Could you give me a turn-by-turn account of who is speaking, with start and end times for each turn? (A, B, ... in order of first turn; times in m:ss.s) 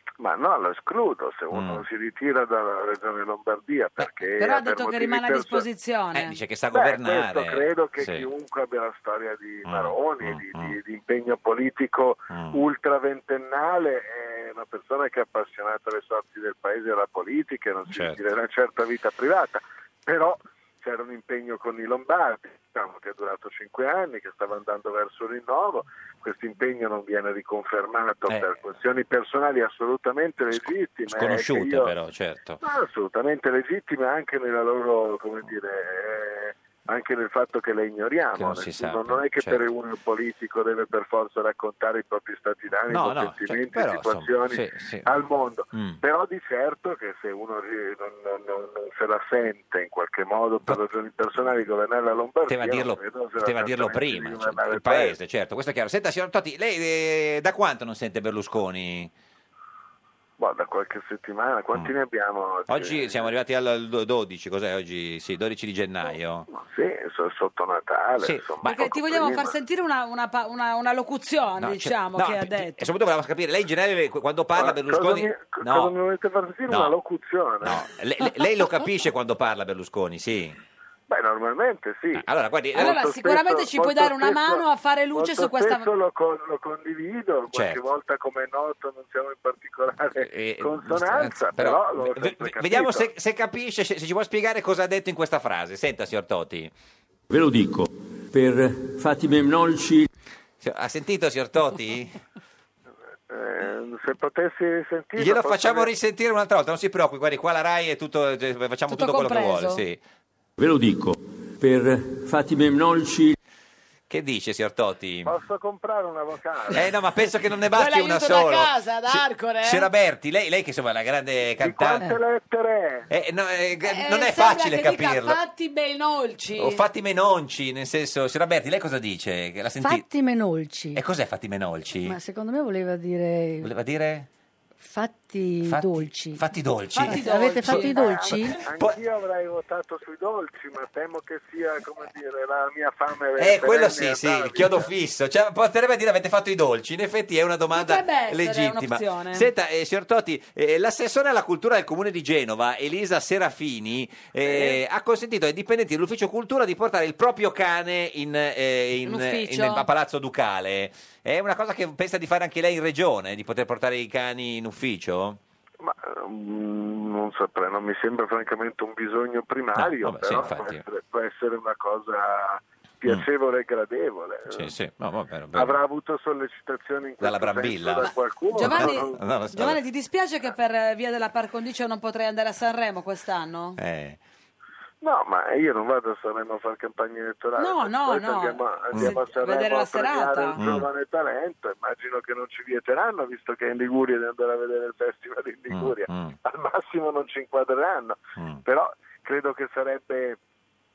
0:00.2-0:05.6 A
0:01.5-0:01.8 B
0:04.4-0:06.4 C
0:06.1-0:08.3 B
0:06.7-0:31.9 A
0:09.6-0:10.8 B
0:12.3-0:12.6 B
0:17.9-0:18.2 B
0:30.5-0:32.6 B
0:32.6-0:55.1 A
0:38.3-0:39.6 B
0:42.9-0:45.1 B
0:45.7-0:46.0 B
0:52.5-0:59.1 B
1:00.4-1:03.3 A
1:02.7-1:06.5 B
1:06.5-1:09.5 A
1:08.2-1:08.9 B
1:08.6-1:12.9 C
1:11.6-1:15.9 B
1:14.6-1:17.8 A
1:16.7-1:16.9 B
1:17.6-1:20.6 B
1:21.1-1:33.1 A
1:22.1-1:23.0 B
1:22.8-1:25.9 C
1:27.5-1:27.8 B
1:30.2-1:36.7 B
1:37.3-1:40.1 D
1:40.6-1:42.2 B
1:43.3-1:45.9 A
1:45.2-1:50.0 B
1:48.9-1:49.8 C
1:50.6-1:53.4 D
1:54.1-1:55.3 B
1:55.2-1:56.9 A
1:56.7-2:02.1 B
1:57.7-1:59.9 C
2:01.6-2:03.1 A
2:03.1-2:05.4 B
2:03.8-2:06.8 C
2:06.6-2:10.0 B
2:09.8-2:11.0 E
2:10.9-2:12.2 B
2:12.0-2:13.7 E
2:13.6-2:14.3 B
2:14.8-2:16.4 E
2:15.6-2:19.0 B
2:17.0-2:18.4 C
2:17.0-2:18.6 E
2:17.9-2:24.9 A
2:23.4-2:45.4 B
2:27.7-2:29.5 C
2:34.4-2:34.7 A
2:39.0-2:39.8 C
2:45.8-2:54.7 A
2:49.7-2:50.8 B
2:54.5-2:55.8 B
2:55.5-2:59.2 A
2:57.2-2:59.8 B
2:58.5-3:03.8 C
3:03.8-3:04.2 B
3:05.0-3:20.4 A
3:07.6-3:10.6 C
3:08.9-3:09.2 B
3:10.6-3:10.9 B
3:15.7-3:16.4 B
3:18.4-3:18.6 B